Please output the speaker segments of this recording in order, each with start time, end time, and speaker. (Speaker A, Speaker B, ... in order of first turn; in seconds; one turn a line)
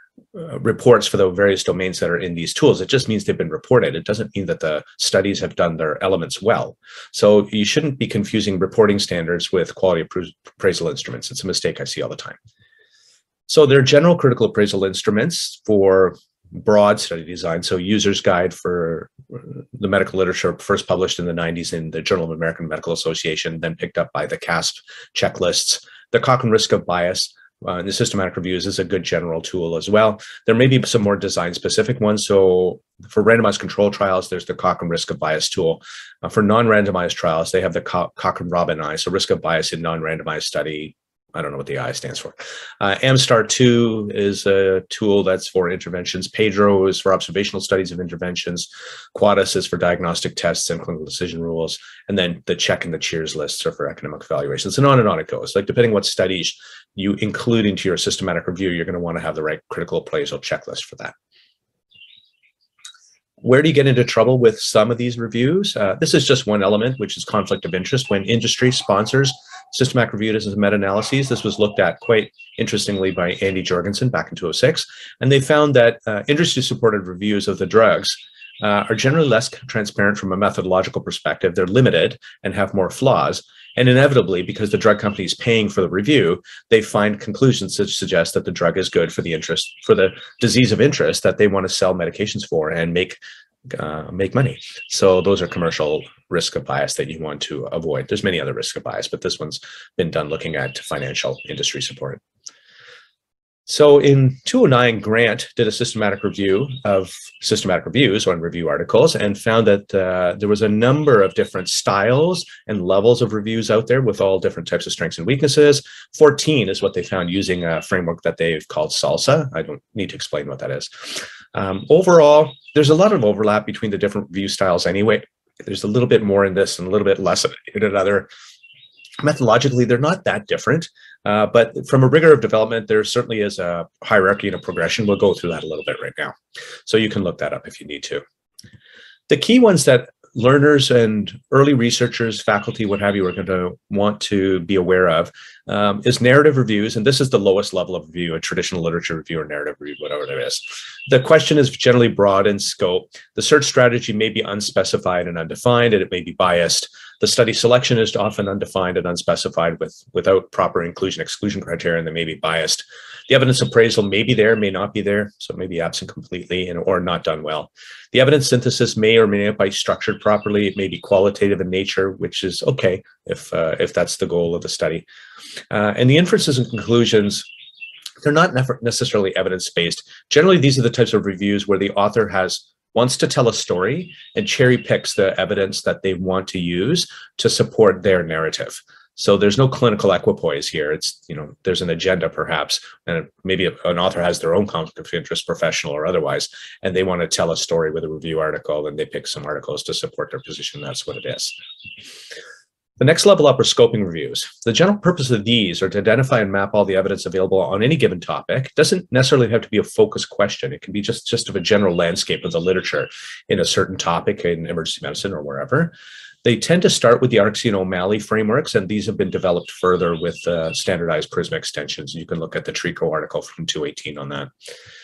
Speaker A: 0.3-12.4
Speaker A: 13.5-61.1
Speaker A: 63.4-102.2
Speaker A: 103.7-128.3
Speaker A: 129.2-138.2
Speaker A: 139.3-175.1
Speaker A: 175.7-177.5
Speaker A: 178.2-201.6
Speaker A: 203.0-215.9
Speaker A: 216.4-224.5